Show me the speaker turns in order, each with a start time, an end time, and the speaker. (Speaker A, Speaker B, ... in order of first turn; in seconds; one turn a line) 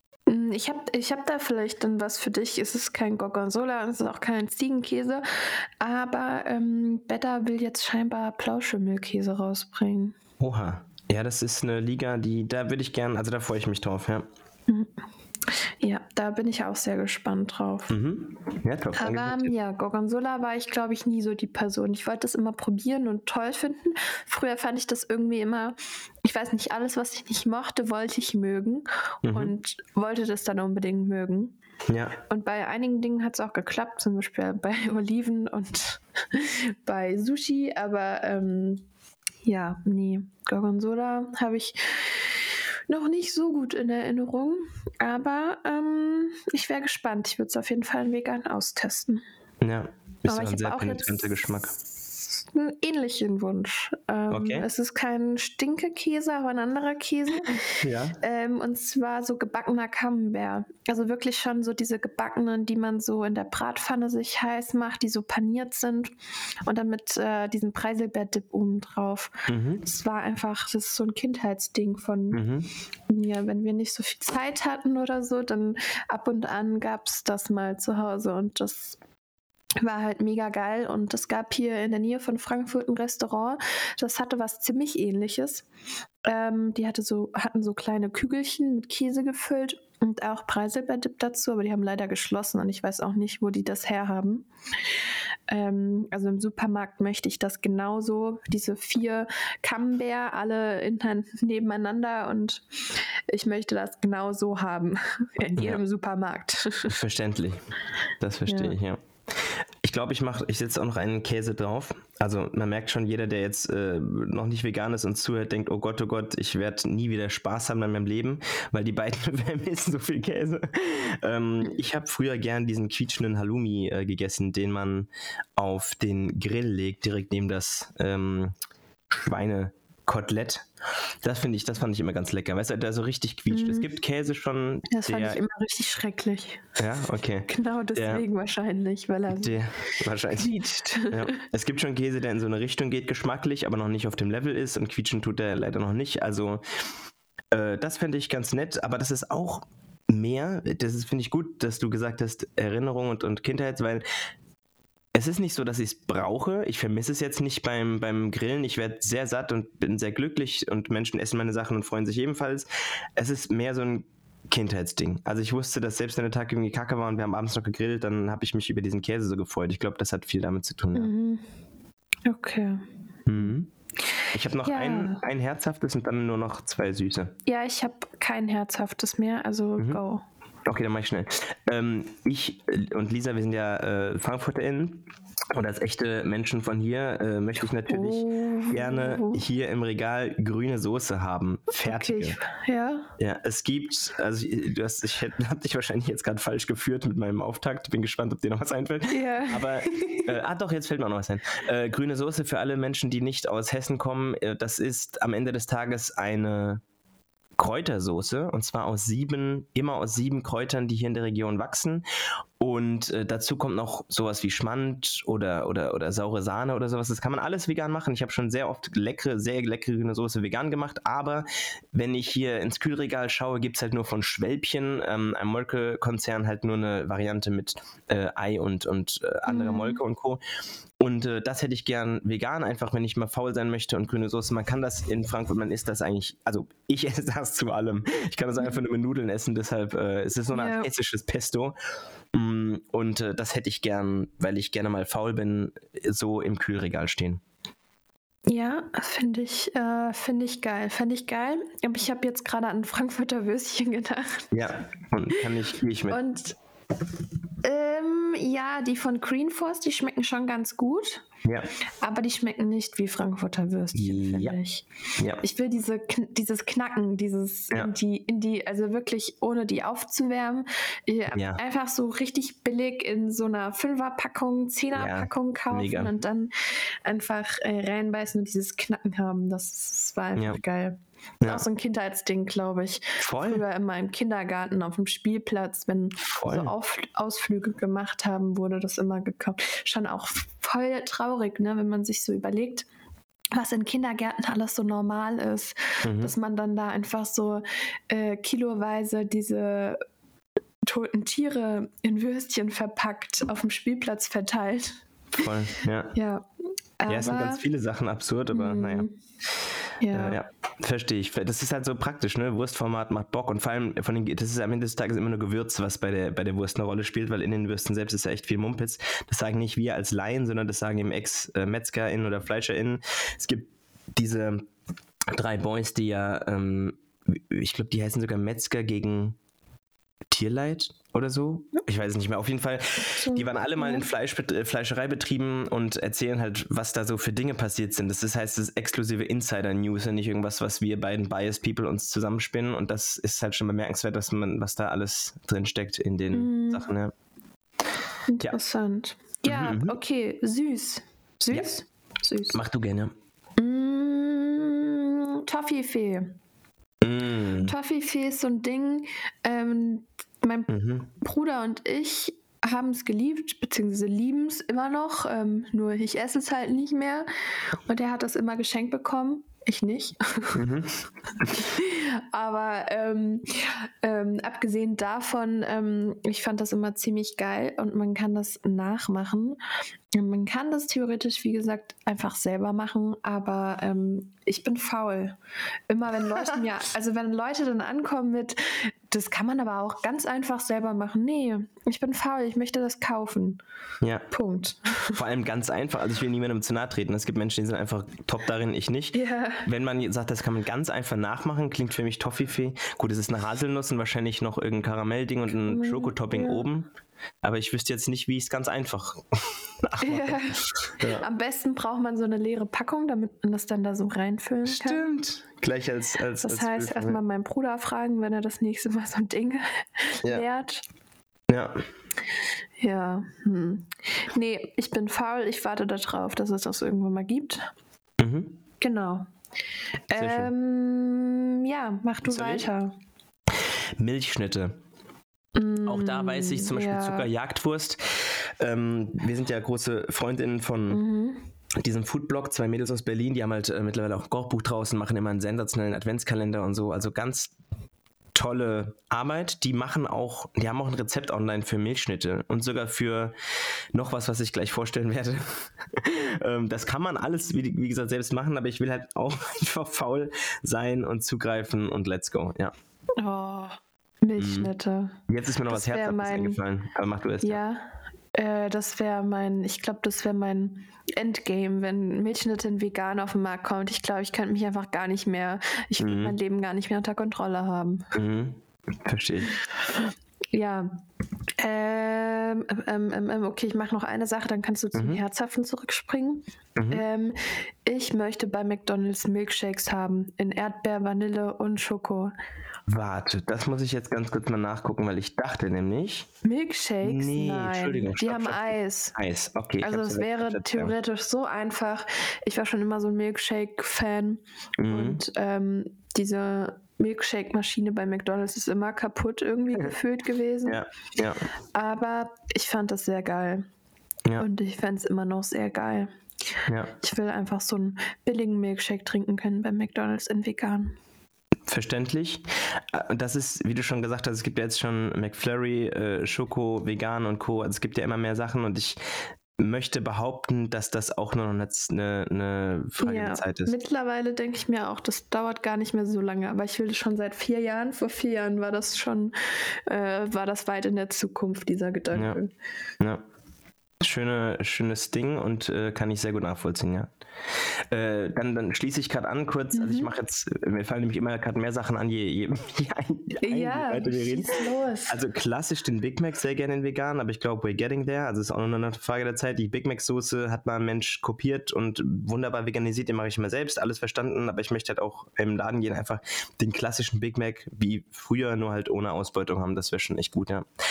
Speaker A: 0.3-10.1
Speaker B: 10.4-14.2
Speaker A: 15.5-17.9
Speaker B: 17.9-19.5
Speaker A: 18.9-31.6
Speaker B: 29.2-29.5
Speaker B: 31.9-32.1
Speaker A: 32.3-38.9
Speaker A: 39.4-42.3
Speaker A: 42.9-49.2
Speaker B: 49.6-51.7
Speaker A: 50.3-51.4
Speaker A: 52.3-66.1
Speaker B: 54.3-54.6
Speaker B: 57.8-58.2
Speaker A: 66.7-72.4
Speaker B: 69.5-69.8
Speaker B: 72.3-72.7
Speaker A: 73.1-79.0
Speaker A: 79.8-85.7
Speaker A: 86.2-94.5
Speaker A: 95.5-107.0
Speaker B: 105.5-105.8
Speaker B: 106.9-107.6
Speaker B: 108.2-128.5
Speaker A: 108.5-108.8
Speaker B: 129.2-130.7
Speaker B: 131.2-135.4
Speaker A: 133.5-133.9
Speaker A: 134.9-136.7
Speaker B: 136.8-138.2
Speaker A: 137.5-139.5
Speaker B: 139.3-140.5
Speaker A: 140.3-141.4
Speaker B: 141.1-146.6
Speaker B: 147.5-154.0
Speaker B: 155.1-171.1
Speaker A: 170.9-171.4
Speaker A: 172.2-172.8
Speaker B: 173.3-173.7
Speaker B: 174.3-177.3
Speaker A: 174.6-175.2
Speaker A: 177.4-180.2
Speaker B: 180.6-192.4
Speaker A: 187.9-189.4
Speaker A: 191.8-193.1
Speaker B: 193.2-206.8
Speaker A: 199.1-200.3
Speaker B: 207.6-212.0
Speaker B: 212.6-230.4
Speaker A: 229.5-230.0
Speaker B: 231.0-241.7
Speaker A: 240.5-240.9
Speaker B: 242.3-247.4
Speaker A: 248.5-254.5
Speaker B: 254.5-256.2
Speaker A: 256.1-256.6
Speaker A: 257.6-261.2
Speaker A: 262.0-264.9
Speaker B: 263.9-264.6
Speaker A: 265.4-276.5
Speaker B: 271.3-271.6
Speaker B: 274.9-276.1
Speaker A: 277.0-292.9
Speaker B: 283.2-283.6
Speaker B: 286.2-286.7
Speaker A: 293.5-300.0
Speaker B: 296.0-296.3
Speaker A: 300.8-305.4
Speaker B: 305.4-306.1
Speaker A: 306.1-306.4
Speaker A: 307.0-307.6
Speaker B: 307.1-309.1
Speaker A: 308.5-309.1
Speaker A: 310.0-310.4
Speaker B: 310.1-324.7
Speaker B: 325.3-329.4
Speaker B: 330.3-347.1
Speaker A: 333.1-334.1
Speaker A: 346.3-346.9
Speaker A: 348.3-352.6
Speaker B: 349.4-349.9
Speaker B: 352.5-353.1
Speaker A: 353.6-356.4
Speaker B: 357.0-357.7
Speaker A: 357.6-360.7
Speaker B: 360.7-361.1
Speaker A: 361.2-370.6
Speaker B: 370.5-371.6
Speaker A: 371.5-379.6
Speaker A: 380.1-385.4
Speaker A: 385.9-393.6
Speaker B: 394.0-394.3
Speaker A: 394.3-395.2
Speaker B: 395.1-406.9
Speaker A: 399.1-399.7
Speaker A: 405.5-406.6
Speaker B: 407.4-411.2
Speaker A: 410.0-415.1
Speaker B: 414.6-417.2
Speaker A: 416.4-420.8
Speaker B: 421.5-421.8
Speaker A: 422.8-427.7
Speaker B: 428.2-428.6
Speaker A: 428.8-429.2
Speaker A: 430.1-432.9
Speaker B: 430.1-430.5
Speaker B: 432.2-432.7
Speaker B: 434.0-434.8
Speaker A: 435.6-437.3
Speaker B: 435.9-441.0
Speaker A: 440.9-441.4
Speaker B: 441.8-447.5
Speaker B: 448.3-453.3
Speaker B: 453.9-462.7
Speaker A: 463.2-465.2
Speaker B: 464.4-464.7
Speaker B: 465.3-467.6
Speaker A: 465.7-466.6
Speaker A: 467.4-478.1
Speaker B: 476.0-476.3
Speaker B: 478.1-479.5
Speaker A: 480.5-480.9
Speaker A: 481.6-492.3
Speaker B: 484.9-485.2
Speaker B: 486.8-487.0
Speaker B: 492.9-496.3
Speaker A: 496.4-499.1
Speaker B: 497.0-500.9
Speaker A: 499.8-510.8
Speaker B: 504.8-505.2
Speaker B: 510.7-511.4
Speaker A: 511.7-513.6
Speaker A: 514.4-516.1
Speaker B: 516.7-516.9
Speaker A: 517.0-521.0
Speaker B: 521.7-529.0
Speaker B: 529.6-533.7
Speaker A: 533.0-542.5
Speaker B: 544.0-547.1
Speaker B: 547.9-570.6
Speaker A: 549.7-550.1
Speaker A: 553.4-555.2